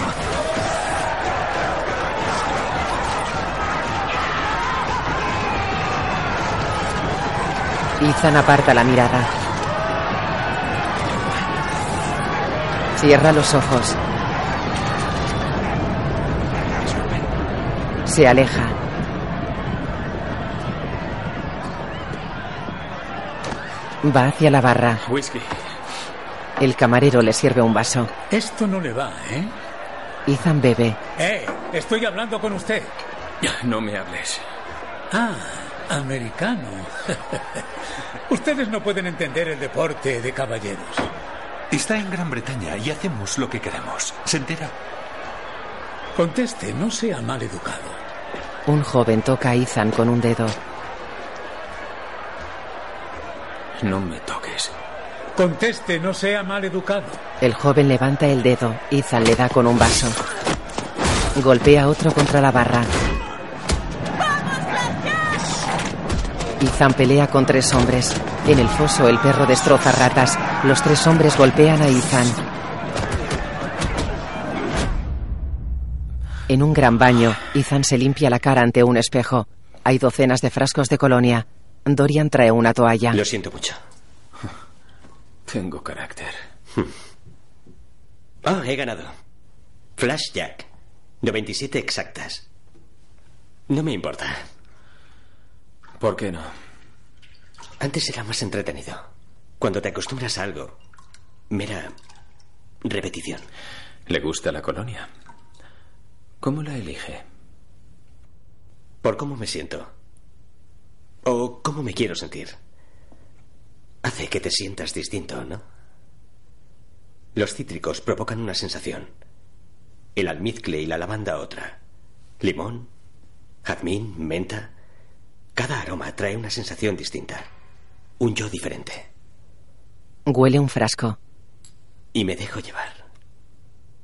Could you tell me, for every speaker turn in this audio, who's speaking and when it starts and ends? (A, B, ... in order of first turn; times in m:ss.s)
0:08.0-0:09.3 A
0:13.0-0:14.0 A
0:18.1-0:18.8 A
0:24.0-0:25.0 A
0:25.0-0:25.6 B
0:26.6-0:28.1 A
0:28.3-0:29.5 C
0:30.3-0:31.0 A
0:31.2-0:32.9 C
0:33.4-0:34.4 B
0:35.1-0:37.2 C
0:38.3-0:41.1 C
0:41.7-0:44.7 D
0:46.2-0:48.0 C
0:48.7-0:50.6 A
0:53.8-0:54.7 B
0:55.4-0:57.2 C
0:57.4-1:00.2 A
1:01.4-1:02.9 A
1:06.6-1:12.4 A
1:16.5-1:23.2 A
1:23.1-1:23.8 E
1:25.5-1:26.4 B
1:28.4-1:29.1 E
1:30.0-1:30.7 E
1:31.2-1:32.5 E
1:33.7-1:34.4 E
1:36.0-1:36.5 B
1:37.8-1:39.0 E
1:39.6-1:40.8 E
1:41.5-1:41.9 E
1:42.8-1:43.4 E
1:44.1-1:45.1 B
1:46.4-1:47.2 B
1:49.0-1:49.9 E
1:51.2-1:52.6 E
1:54.0-1:55.6 E
1:57.4-1:59.1 E
2:00.2-2:01.8 E
2:02.4-2:02.9 E
2:03.6-2:04.7 E
2:05.6-2:07.5 E
2:08.2-2:09.1 E
2:10.3-2:11.2 A
2:12.1-2:13.0 E